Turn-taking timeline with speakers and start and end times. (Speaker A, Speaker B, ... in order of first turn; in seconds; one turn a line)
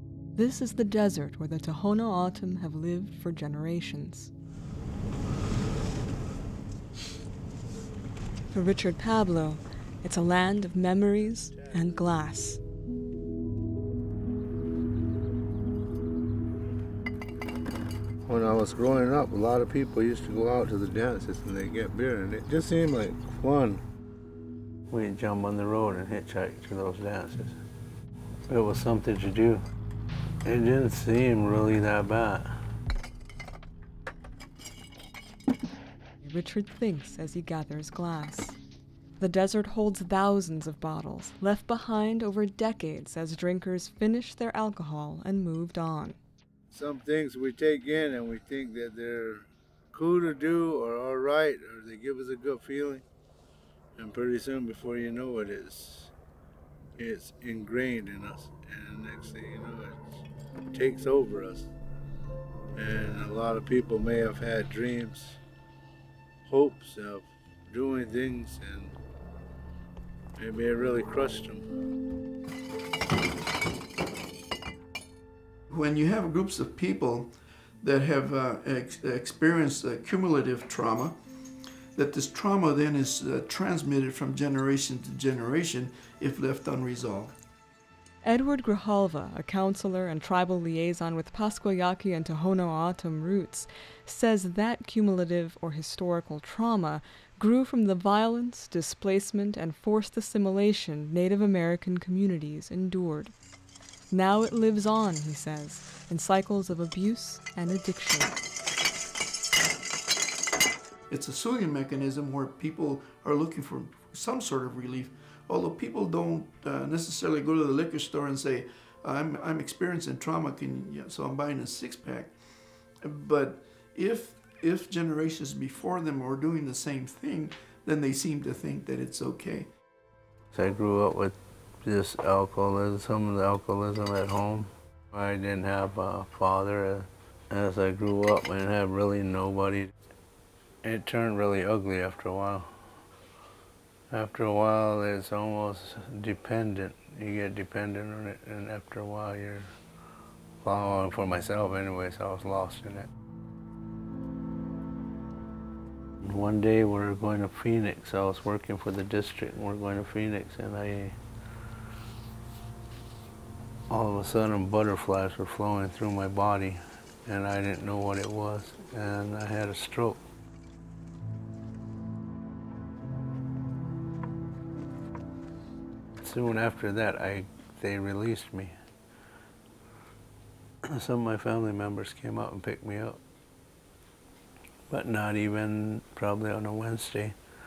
Speaker A: 0.3-4.3
Speaker A: 8.5-12.6
Speaker B: 18.3-23.8
Speaker B: 24.9-27.6
Speaker B: 28.5-29.6
Speaker B: 30.4-32.6
Speaker A: 36.2-38.6
Speaker A: 39.2-46.2
Speaker B: 46.7-53.0
Speaker B: 54.0-56.1
Speaker B: 57.0-59.9
Speaker B: 60.7-61.6
Speaker B: 62.7-65.4
Speaker B: 66.5-68.9
Speaker B: 70.4-71.6
Speaker C: 75.7-81.2
Speaker C: 82.0-87.3
Speaker A: 88.2-103.3
Speaker A: 104.1-108.4
Speaker C: 111.1-122.3
Speaker C: 123.0-129.7
Speaker B: 130.5-139.9
Speaker B: 140.8-142.7
Speaker B: 144.1-149.7
Speaker B: 150.6-153.1
Speaker B: 156.2-161.2
Speaker B: 163.9-170.2
Speaker B: 176.2-178.7
Speaker B: 180.9-183.2
Speaker B: 184.9-187.3